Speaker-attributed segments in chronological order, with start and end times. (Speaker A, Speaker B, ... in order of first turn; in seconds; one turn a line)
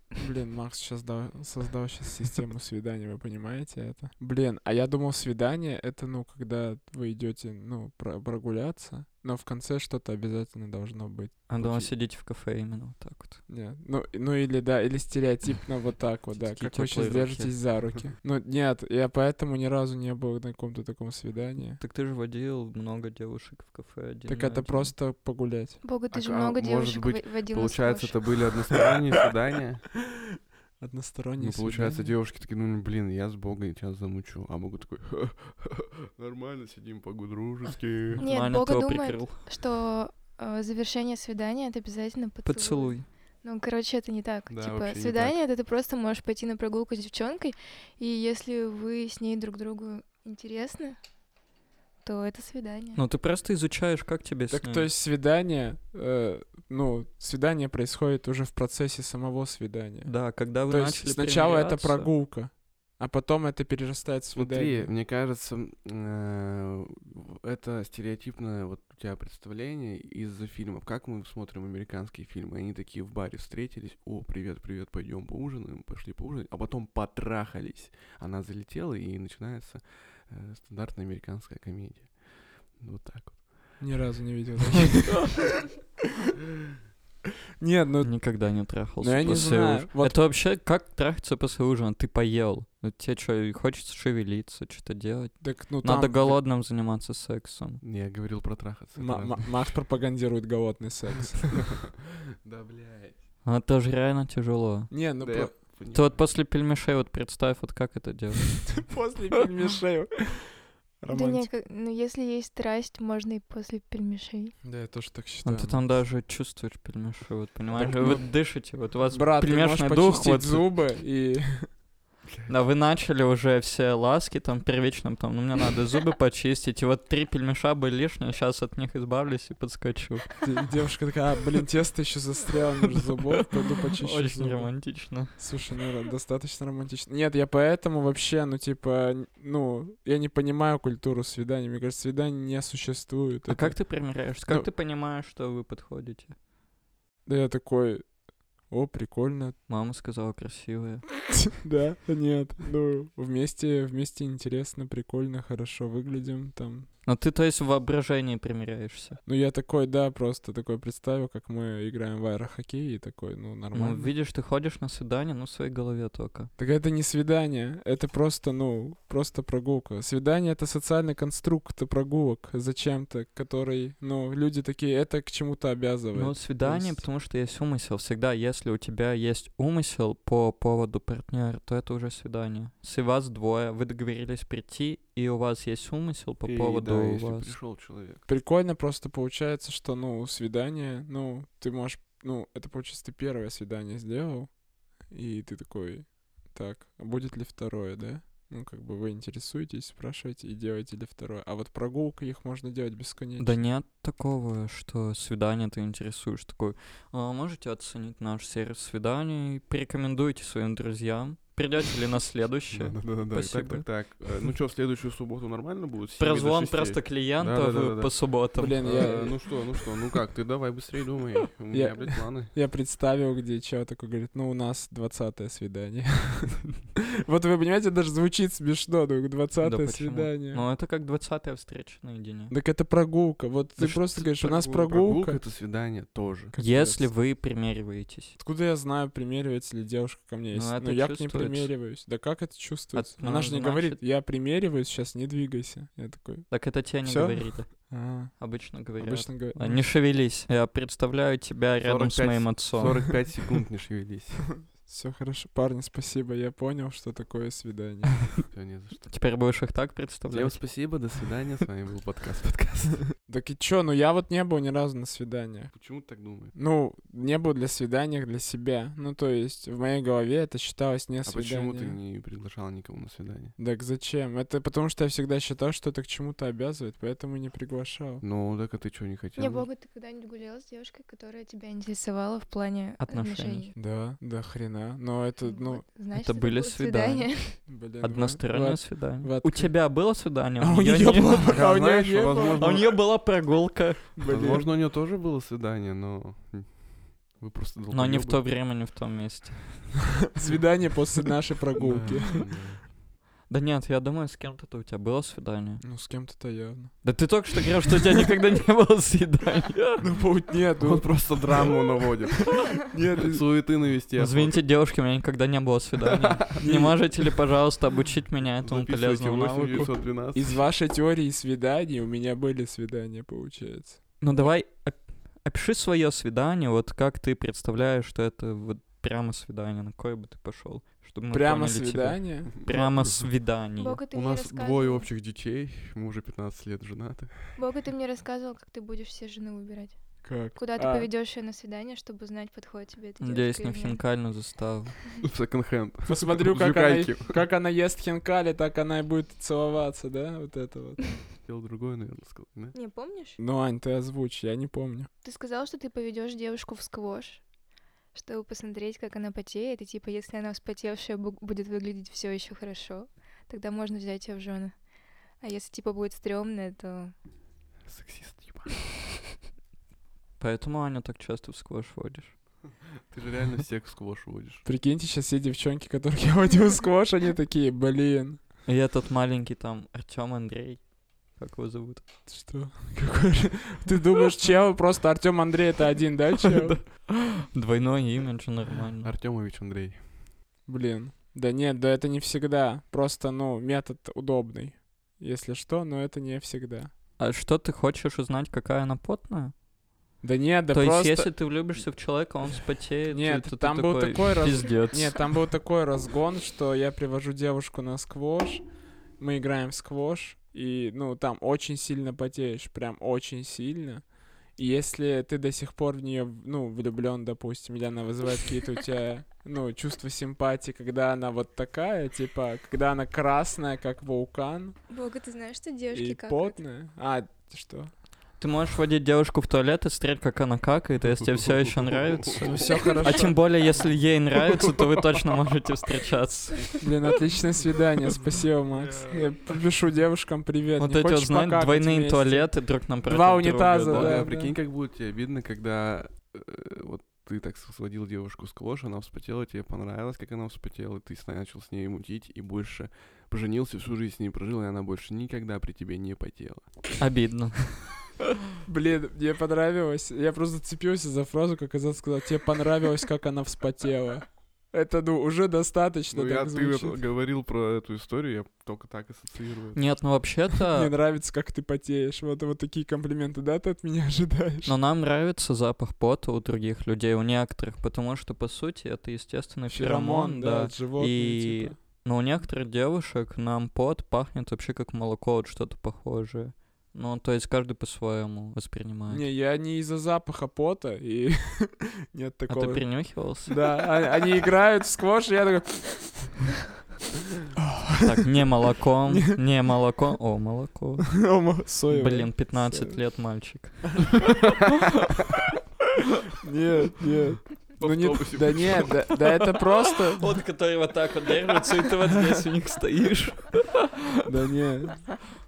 Speaker A: 0.2-11.5
Speaker B: 11.5-13.4
Speaker C: 11.6-11.9
Speaker A: 13.5-21.8
Speaker B: 16.3-17.6
Speaker B: 21.8-24.9
Speaker A: 24.3-25.8
Speaker D: 25.8-28.3
Speaker C: 26.1-29.9
Speaker A: 30.8-32.1
Speaker C: 31.4-38.2
Speaker B: 38.1-39.4
Speaker D: 38.2-51.0
Speaker B: 42.4-43.1
Speaker C: 44.5-45.4
Speaker D: 52.0-53.0
Speaker B: 53.0-54.9
Speaker A: 54.5-64.9
Speaker B: 60.0-62.1
Speaker C: 64.3-83.8
Speaker A: 83.8-85.3
Speaker A: 87.6-88.3
Speaker B: 88.0-97.8
Speaker A: 89.0-90.2
Speaker C: 89.2-89.5
Speaker A: 95.4-96.4
Speaker C: 97.8-99.8
Speaker A: 99.0-101.6
Speaker C: 102.4-103.3
Speaker B: 103.5-104.9
Speaker A: 104.9-105.5
Speaker C: 105.2-106.3
Speaker B: 105.9-108.8
Speaker A: 108.8-111.5
Speaker D: 111.1-114.5
Speaker A: 114.6-116.0
Speaker B: 115.5-120.8
Speaker C: 117.8-118.2
Speaker A: 119.1-121.7
Speaker B: 122.5-130.3
Speaker A: 130.4-144.7
Speaker B: 133.0-135.6
Speaker B: 143.5-146.4
Speaker A: 147.2-149.6
Speaker B: 149.7-151.3
Speaker A: 151.5-156.9
Speaker B: 157.1-159.2
Speaker A: 159.3-164.1
Speaker B: 163.7-166.5
Speaker A: 166.6-177.1
Speaker B: 176.1-187.5
Speaker C: 186.5-188.3
Speaker A: 188.3-203.6
Speaker B: 203.4-214.1
Speaker C: 212.7-222.6
Speaker B: 216.2-219.4
Speaker A: 218.6-219.6
Speaker A: 221.7-230.6
Speaker B: 229.6-232.5
Speaker A: 232.5-235.4
Speaker C: 233.8-236.6
Speaker A: 236.5-237.1
Speaker B: 236.6-238.4
Speaker A: 238.4-249.9
Speaker B: 240.5-241.7
Speaker B: 242.9-244.0
Speaker B: 246.5-253.2
Speaker C: 251.8-254.6
Speaker A: 254.7-258.5
Speaker C: 258.5-259.1
Speaker B: 259.1-260.9
Speaker C: 260.3-263.1
Speaker A: 263.2-265.7
Speaker C: 265.7-266.6
Speaker A: 266.5-272.0
Speaker C: 271.3-273.6
Speaker A: 273.6-278.2
Speaker C: 278.2-279.7
Speaker D: 279.4-283.7
Speaker B: 283.0-283.7
Speaker A: 283.8-285.9
Speaker D: 285.4-287.6
Speaker B: 286.1-291.7
Speaker A: 287.7-289.9
Speaker A: 290.6-292.9
Speaker C: 291.5-293.0
Speaker B: 292.6-294.2
Speaker A: 294.2-294.7
Speaker C: 294.3-298.4
Speaker B: 297.9-300.1
Speaker A: 300.3-302.4
Speaker C: 301.8-302.9
Speaker B: 303.5-305.8
Speaker A: 305.8-307.2
Speaker B: 307.0-310.0
Speaker A: 310.0-311.4
Speaker C: 310.8-314.6
Speaker A: 312.8-313.4
Speaker B: 314.2-319.9
Speaker A: 316.6-317.0
Speaker C: 318.6-320.6
Speaker A: 320.3-324.0
Speaker B: 324.2-334.0
Speaker A: 331.3-332.5
Speaker C: 332.7-333.5
Speaker D: 333.8-335.1
Speaker C: 334.1-337.6
Speaker D: 337.6-344.0
Speaker A: 340.2-341.1
Speaker B: 343.2-345.0
Speaker C: 345.2-347.4
Speaker A: 346.1-351.1
Speaker C: 351.4-352.8
Speaker D: 352.7-353.4
Speaker A: 353.4-355.1
Speaker D: 355.2-357.5
Speaker D: 358.1-364.8
Speaker D: 365.4-367.1
Speaker C: 367.9-368.8
Speaker B: 370.4-372.4
Speaker C: 373.1-374.6
Speaker A: 374.6-378.4
Speaker B: 378.7-382.0
Speaker A: 382.3-386.9
Speaker B: 386.7-389.1
Speaker C: 389.0-390.3
Speaker A: 390.7-396.9
Speaker B: 397.2-399.5
Speaker A: 400.2-401.4
Speaker B: 400.7-405.3
Speaker A: 403.1-408.6
Speaker A: 409.2-424.8
Speaker D: 424.9-426.6
Speaker A: 425.9-427.9
Speaker B: 428.4-436.9
Speaker C: 431.3-432.0
Speaker A: 432.6-433.4
Speaker D: 432.7-433.0
Speaker A: 436.8-444.5
Speaker C: 438.7-439.6
Speaker B: 440.8-444.2
Speaker C: 443.9-456.8
Speaker B: 457.0-458.1
Speaker A: 458.6-467.0
Speaker C: 466.1-470.0
Speaker B: 469.8-470.9
Speaker A: 470.7-474.7
Speaker B: 474.6-489.3
Speaker A: 479.7-481.8
Speaker A: 489.1-496.3
Speaker B: 492.5-493.6
Speaker A: 497.6-498.5
Speaker B: 498.0-501.3
Speaker A: 499.1-499.5
Speaker A: 501.1-503.1
Speaker B: 501.9-504.2
Speaker A: 506.4-510.4
Speaker C: 507.8-508.9
Speaker B: 510.2-513.8
Speaker A: 514.2-515.2